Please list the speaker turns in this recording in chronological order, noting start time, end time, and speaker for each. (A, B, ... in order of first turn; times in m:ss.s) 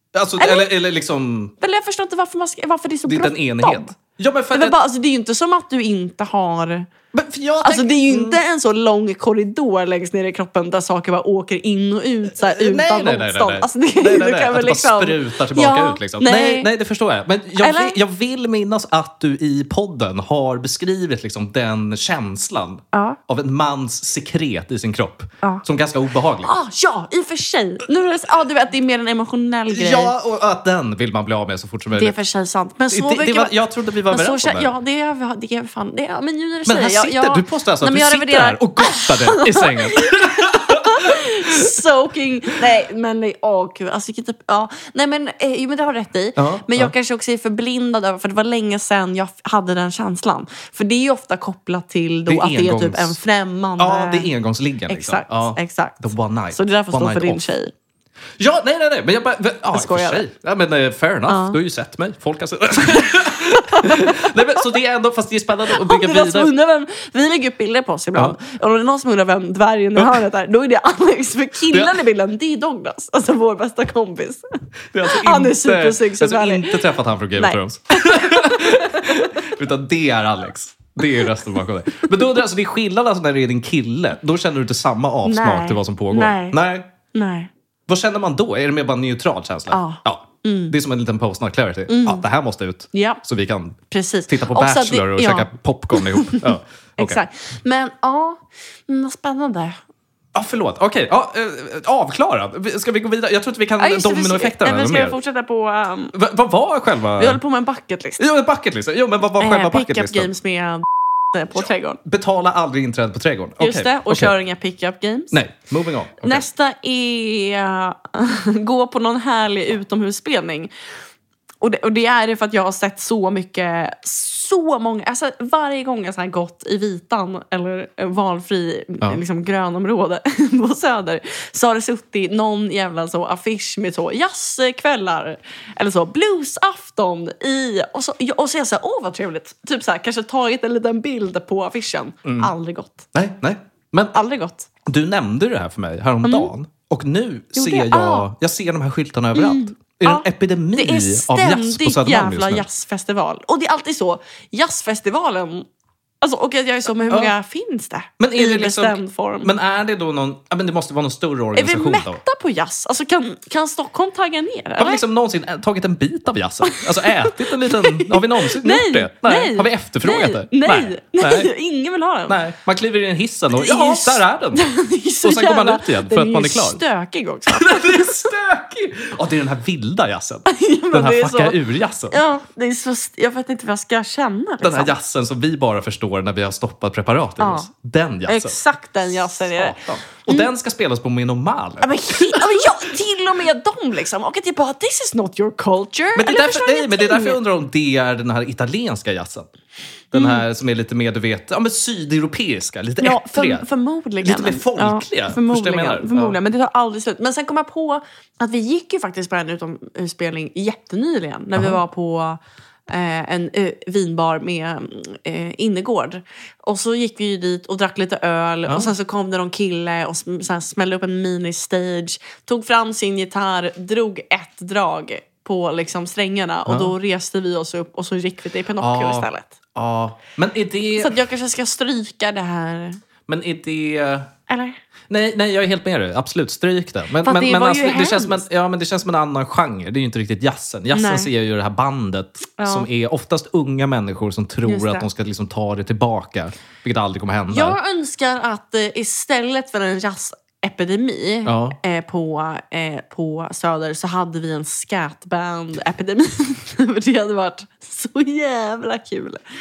0:00.1-0:01.5 A
0:00.4-0:00.7 B
0:01.6-0:03.9 B
0:03.1-0:04.8 A
0:04.5-0:06.9 B
0:07.1-0:08.4 A
0:07.6-0:16.7 B
0:12.3-0:26.5 A
0:17.6-0:18.0 B
0:22.9-0:23.2 B
0:26.4-0:30.1 B
0:29.7-0:32.2 A
0:31.9-0:33.6 B
0:32.9-0:34.7 A
0:34.1-0:54.3 B
0:36.7-0:41.7 A
0:46.4-0:46.9 A
0:52.3-0:53.2 A
0:53.8-0:57.4 A
0:54.9-0:57.7 B
0:58.4-1:06.5 A
0:59.7-1:00.2 B
1:01.3-1:01.6 B
1:03.0-1:04.8 B
1:05.7-1:14.4 B
1:10.0-1:10.2 A
1:11.7-1:12.0 A
1:14.9-1:26.9 A
1:15.1-1:19.4 B
1:21.1-1:21.3 B
1:25.2-1:26.6 B
1:27.1-1:27.5 B
1:27.9-1:37.2 A
1:29.7-1:30.8 B
1:31.9-1:32.2 B
1:32.9-1:33.2 B
1:33.9-1:39.8 B
1:40.3-1:45.2 A
1:43.8-1:46.1 B
1:46.1-1:47.4 A
1:47.2-1:48.2 B
1:48.2-1:50.3 A
1:49.4-1:52.0 B
1:51.6-1:54.3 A
1:53.6-1:55.4 B
1:55.3-1:56.5 A
1:56.2-2:00.7 B
2:01.6-2:23.1 B
2:22.2-2:22.5 A
2:23.1-2:24.2 A
2:24.1-2:24.7 B
2:24.9-2:32.6 A
2:26.2-2:26.5 B
2:27.6-2:28.3 B
2:29.4-2:35.7 B
2:36.2-2:39.5 B
2:37.1-2:37.3 A
2:38.2-2:42.2 A
2:41.6-2:45.0 B
2:44.8-2:51.5 A
2:46.6-2:52.4 B
2:52.3-2:54.7 A
2:53.5-2:58.3 B
2:55.2-2:56.8 A
2:57.5-3:02.2 A
3:00.5-3:05.0 B
3:04.6-3:08.6 A
3:07.4-3:07.7 B
3:08.3-3:10.5 B
3:09.2-3:12.7 A
3:11.8-3:17.4 B
3:16.2-3:19.5 A
3:20.1-3:23.7 A
3:20.1-3:20.4 B
3:23.0-3:49.6 B
3:24.2-3:26.4 A
3:38.7-3:38.9 A
3:46.7-3:46.9 A
3:48.8-3:51.2 A
3:51.0-3:53.0 B
3:53.3-3:54.3 A
3:54.5-3:54.8 B
3:55.1-4:07.8 A
3:57.2-3:58.4 B
4:00.9-4:01.3 B
4:02.6-4:02.9 B
4:04.6-4:05.1 B
4:07.5-4:19.4 B
4:11.4-4:11.8 A